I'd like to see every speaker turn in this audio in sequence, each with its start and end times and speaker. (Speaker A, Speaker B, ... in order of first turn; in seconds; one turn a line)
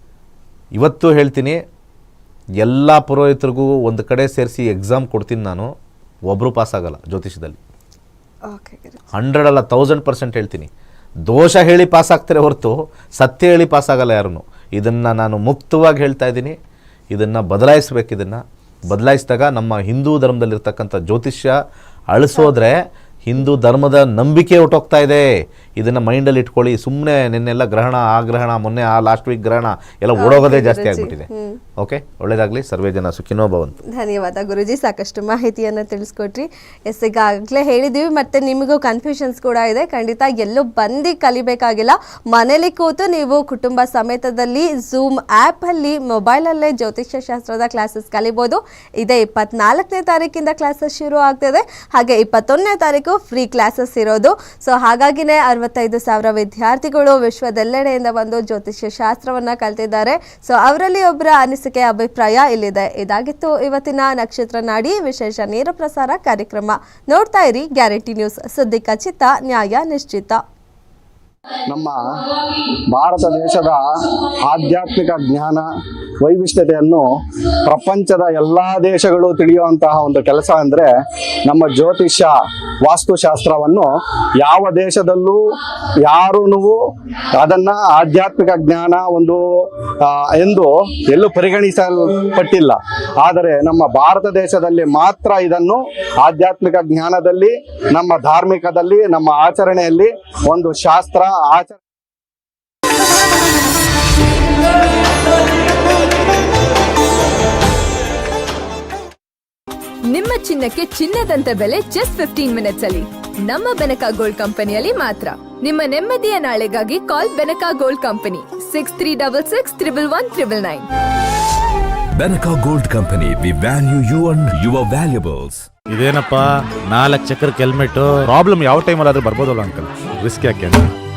Speaker A: 0.8-1.6
Speaker A: 2.6-5.7
Speaker A: 6.3-7.6
Speaker B: 8.5-9.0
Speaker A: 9.1-10.7
Speaker A: 11.3-16.6
Speaker A: 17.1-21.6
Speaker A: 22.1-33.8
Speaker B: 30.2-31.6
Speaker B: 33.9-70.4
Speaker C: 71.7-72.0
Speaker C: 72.9-75.7
Speaker C: 76.2-77.0
Speaker C: 77.7-80.9
Speaker C: 81.5-85.4
Speaker C: 86.0-86.8
Speaker C: 87.4-101.8
Speaker D: 110.1-120.9
Speaker E: 122.2-125.6
Speaker F: 125.9-130.9